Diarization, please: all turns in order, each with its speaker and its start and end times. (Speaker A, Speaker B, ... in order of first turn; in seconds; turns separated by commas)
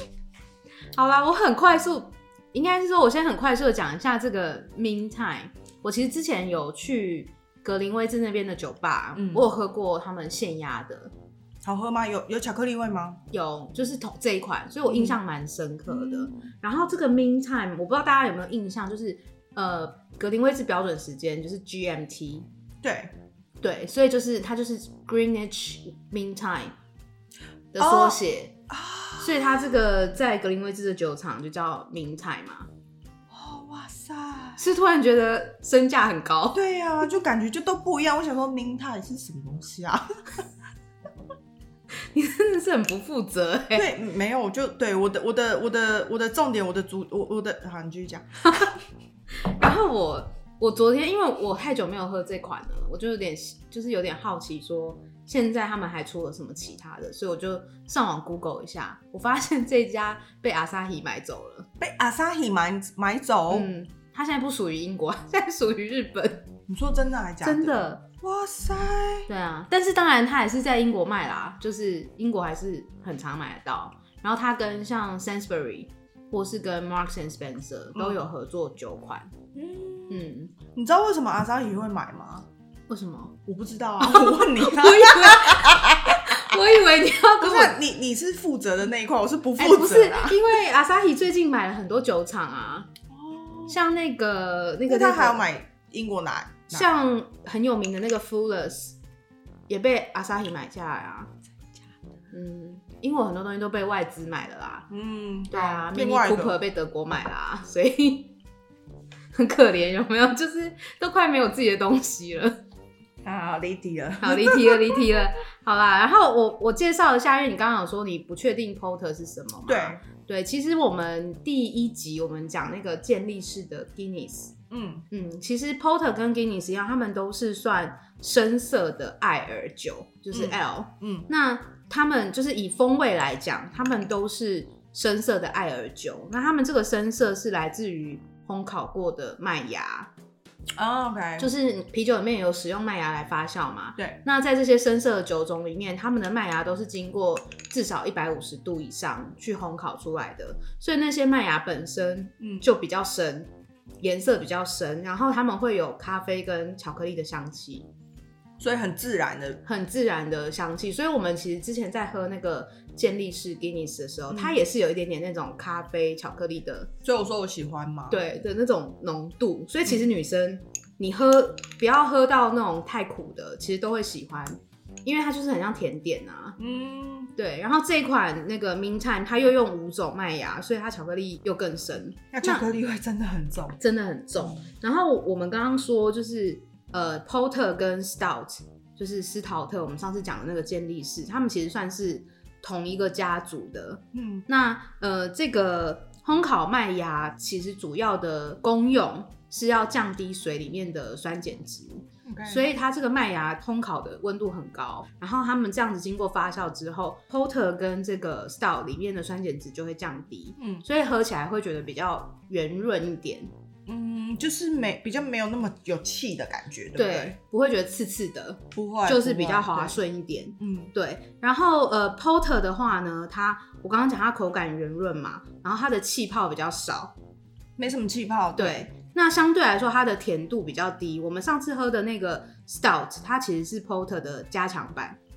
Speaker A: 0.9-11.1, Speaker B: 9.2-9.5, Speaker B: 11.6-13.2, Speaker A: 13.3-22.5, Speaker B: 14.9-15.2, Speaker B: 15.9-16.5, Speaker B: 22.8-23.1, Speaker A: 23.6-26.7, Speaker A: 27.7-28.5, Speaker B: 27.8-29.8, Speaker A: 29.2-32.7, Speaker B: 33.3-34.6, Speaker A: 34.6-36.6, Speaker B: 36.5-40.0, Speaker A: 42.1-43.9, Speaker B: 43.7-48.7, Speaker A: 49.5-61.7, Speaker B: 61.8-63.7, Speaker A: 63.5-66.5, Speaker B: 66.7-69.3, Speaker A: 67.4-68.0, Speaker A: 69.3-79.3, Speaker B: 79.5-82.5, Speaker A: 80.1-80.5, Speaker A: 82.9-83.3, Speaker B: 83.5-86.6, Speaker A: 84.0-87.8, Speaker B: 87.4-90.4, Speaker A: 89.6-92.9, Speaker B: 93.1-93.8, Speaker A: 93.7-95.5, Speaker B: 94.9-96.9, Speaker A: 96.7-99.0, Speaker A: 99.7-101.3, Speaker A: 102.3-104.9, Speaker B: 104.9-106.6, Speaker A: 105.5-108.3, Speaker A: 109.3-112.6, Speaker B: 113.2-115.0, Speaker A: 114.2-124.5, Speaker B: 119.7-120.0, Speaker B: 124.7-125.0, Speaker A: 125.1-140.1, Speaker B: 130.3-131.3, Speaker B: 140.8-141.5, Speaker A: 141.4-157.9, Speaker B: 152.4-152.7, Speaker B: 158.6-159.6, Speaker A: 159.6-166.9, Speaker B: 164.3-164.6, Speaker B: 167.0-168.2, Speaker A: 168.1-176.6, Speaker B: 176.6-177.3, Speaker A: 177.3-182.7, Speaker B: 182.3-183.8, Speaker A: 183.8-213.5, Speaker B: 194.1-194.4, Speaker B: 202.2-202.7, Speaker B: 210.6-210.8, Speaker B: 213.9-217.3, Speaker A: 216.9-227.1, Speaker B: 218.7-220.0, Speaker B: 220.6-220.9, Speaker B: 227.8-228.9, Speaker A: 228.6-235.2